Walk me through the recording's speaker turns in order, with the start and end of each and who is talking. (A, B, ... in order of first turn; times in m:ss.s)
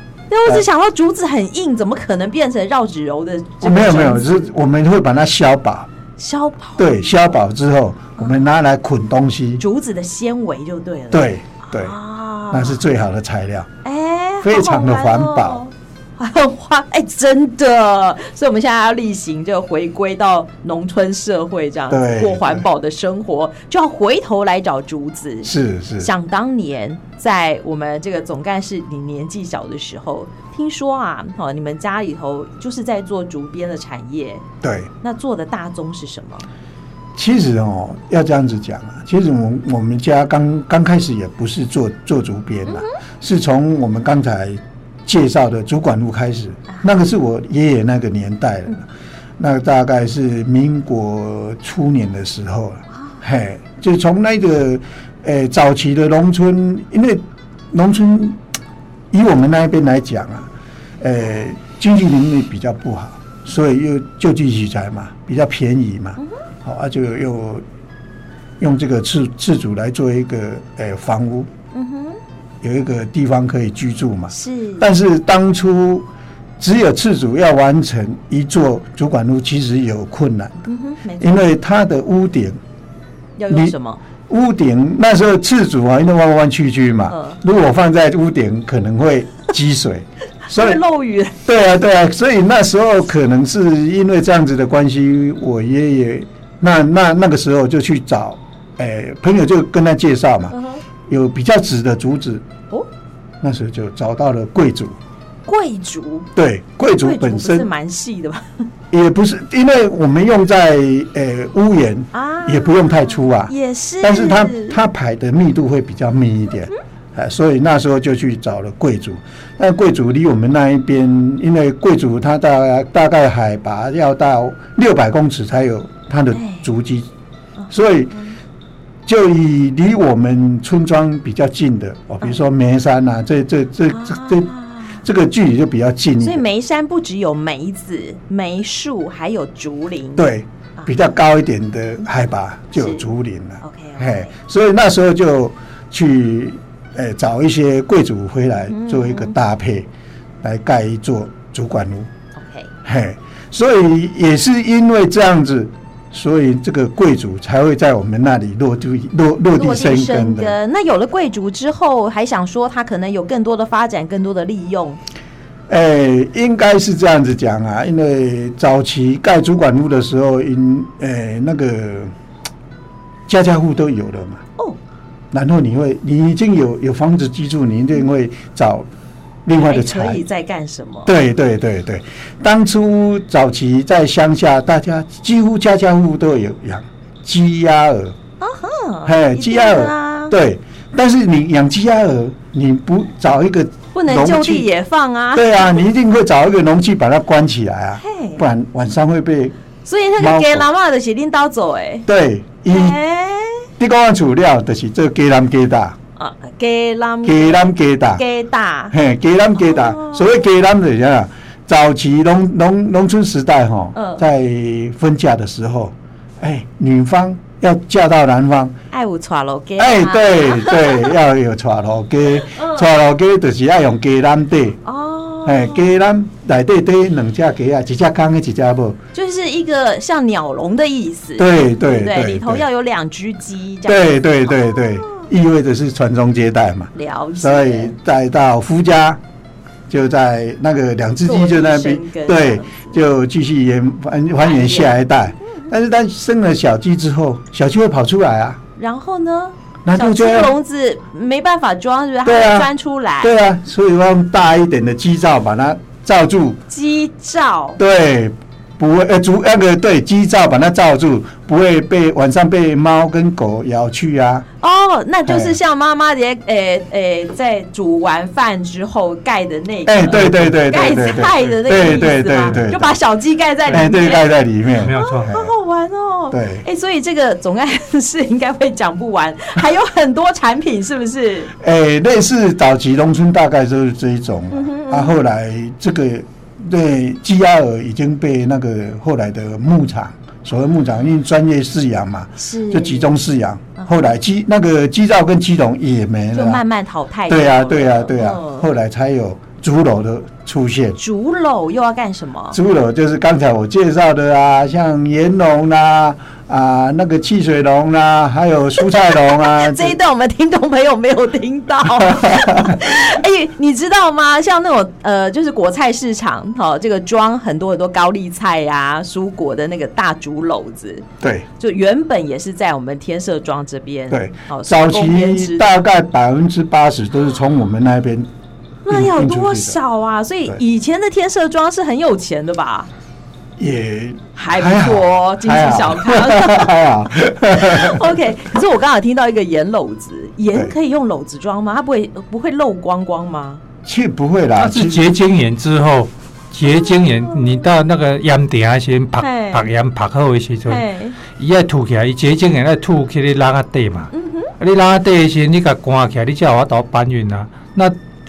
0:00.3-0:04.5 A
0:03.6-0:05.9 B
0:06.2-0:07.2 A
0:06.8-0:09.6 B
0:08.2-0:08.4 A
0:09.6-0:12.8 A
0:11.1-0:12.0 B
0:12.5-0:13.7 B
0:13.8-0:34.4 A
0:14.4-0:15.6 B
0:21.9-0:22.6 B
0:25.4-0:26.1 B
0:34.6-0:34.9 B
0:35.0-0:36.5 A
0:37.2-0:48.9 B
0:49.4-0:58.4 B
0:59.1-1:00.5 B
1:01.0-1:07.6 B
1:08.6-1:11.5 B
1:11.7-1:12.2 A
1:12.6-1:16.1 B
1:14.3-1:14.9 A
1:16.6-1:20.6 B
1:20.7-1:21.4 A
1:21.2-1:22.6 B
1:23.4-1:24.0 A
1:23.5-1:23.7 B
1:24.3-1:30.8 B
1:27.1-1:27.4 A
1:30.5-1:31.4 A
1:31.4-1:40.5 B
1:40.5-1:40.8 A
1:41.1-1:42.4 B
1:43.4-1:45.0 B
1:45.4-1:46.3 A
1:46.3-1:47.7 B
1:46.9-1:48.6 A
1:48.9-2:07.1 B
1:52.1-1:54.8 A
2:06.3-2:06.6 A
2:07.6-2:08.3 A
2:07.7-2:08.2 B
2:09.0-2:16.4 B
2:13.9-2:15.0 A
2:16.2-2:20.2 A
2:20.2-2:29.9 B
2:22.8-2:23.0 A
2:23.6-2:24.3 A
2:28.7-2:29.3 A
2:30.4-2:32.1 B
2:32.4-2:32.7 A
2:32.8-2:40.6 B
2:39.5-2:45.0 A
2:45.7-2:52.1 B
2:53.3-2:54.4 B
2:55.3-2:58.9 B
2:59.4-3:00.2 B
2:59.6-3:01.1 A
3:01.0-3:08.2 B
3:08.4-3:10.3 A
3:09.0-3:14.7 B
3:13.9-3:15.7 A
3:15.3-3:19.5 B
3:18.0-3:18.4 A
3:19.8-3:22.1 A
3:20.2-3:20.6 B
3:22.1-3:23.0 B
3:22.7-3:23.7 A
3:23.8-3:26.0 B
3:26.2-3:28.9 A
3:27.2-3:28.2 B
3:28.9-3:38.8 B
3:29.6-3:30.4 A
3:33.9-3:34.2 A
3:38.9-3:41.1 A
3:39.8-3:44.8 B
3:42.5-3:42.8 A
3:44.8-3:45.9 A
3:45.4-3:49.0 B
3:49.1-3:55.2 A
3:51.4-3:52.6 B
3:53.9-3:59.2 B
3:56.9-3:57.9 A
3:59.9-4:08.6 B
4:01.2-4:03.0 A
4:04.4-4:05.0 A
4:08.8-4:13.3 A
4:09.8-4:10.5 B
4:12.2-4:16.6 B
4:16.7-4:17.8 A
4:17.8-4:24.4 B
4:24.6-4:34.3 A
4:25.2-4:25.6 B
4:29.8-4:33.0 B
4:30.1-4:30.4 C
4:31.5-4:31.8 C
4:33.7-4:35.5 B
4:34.8-4:35.3 C
4:35.0-4:41.5 A
4:36.3-4:36.6 B
4:41.6-4:56.6 B
4:44.5-4:45.2 A
4:52.4-4:53.1 A
4:56.3-4:58.7 A
4:57.3-5:01.0 B
5:01.0-5:02.6 A
5:02.5-5:10.0 B
5:08.9-5:21.1 A
5:12.0-5:12.8 B
5:21.2-5:21.4 B
5:21.6-5:25.7 A
5:24.1-5:28.3 B
5:28.8-5:32.9 A
5:28.9-5:29.8 B
5:33.6-5:38.1 B
5:34.3-5:36.8 A
5:37.5-5:43.6 A
5:43.8-5:45.1 B
5:44.6-5:58.0 C
5:46.9-5:47.6 A
5:49.2-5:49.7 A
5:50.7-5:51.2 A
5:54.1-5:54.5 A